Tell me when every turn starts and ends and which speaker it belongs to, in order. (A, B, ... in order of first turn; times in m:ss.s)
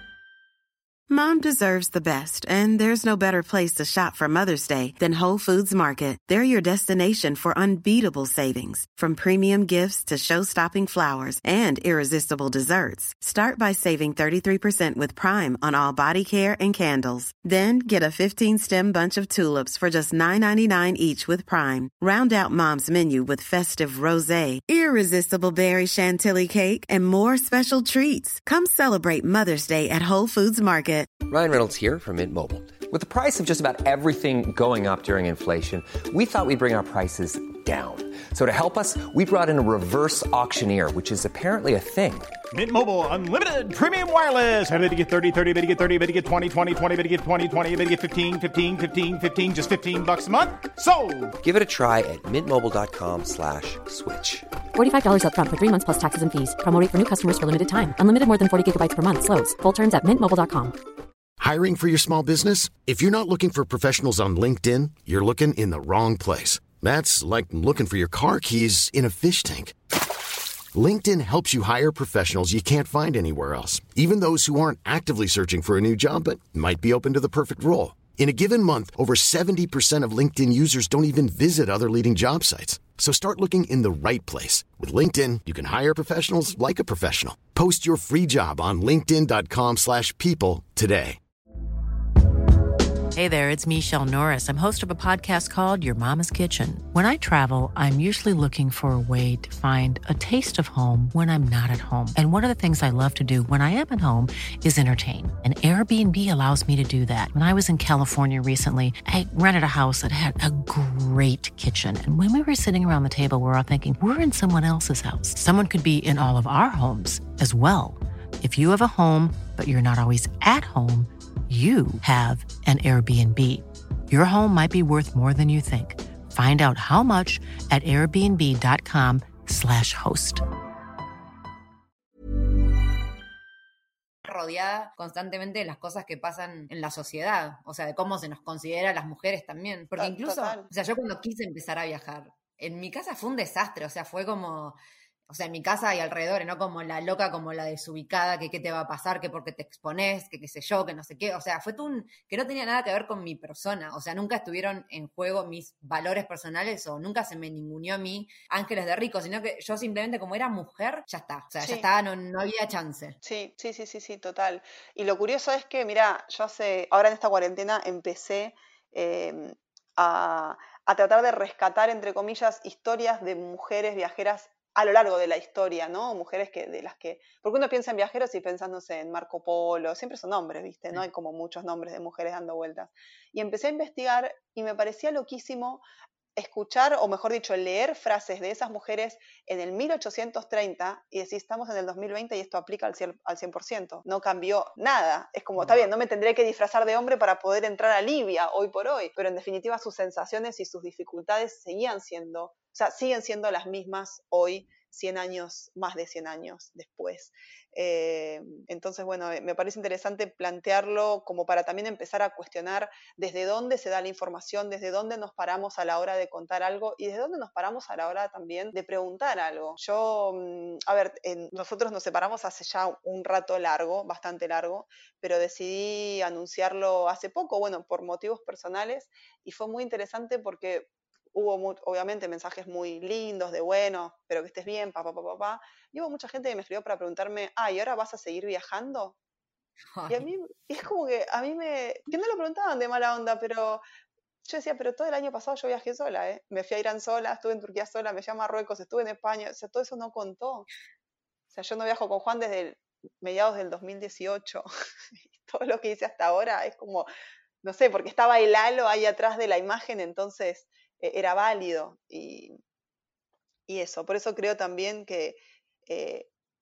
0:01.1-0:31.1 A
0:31.2-0:42.3 B
0:42.5-0:51.3 C
0:51.4-0:54.5 B
0:54.7-1:00.8 D
1:01.4-1:09.7 E
1:10.7-1:31.2 E
1:33.1-2:10.4 F
2:14.2-2:24.8 G
2:20.0-2:20.7 H
2:25.3-2:43.2 G
2:41.6-2:41.8 H
2:43.2-3:05.8 H
3:06.4-3:59.2 H
3:15.6-3:15.8 G
3:59.9-4:00.3 G
4:00.1-4:03.8 H
4:04.4-4:10.7 H
4:11.5-4:14.7 H
4:15.3-4:17.1 H
4:17.6-4:22.6 H
4:23.7-4:26.3 H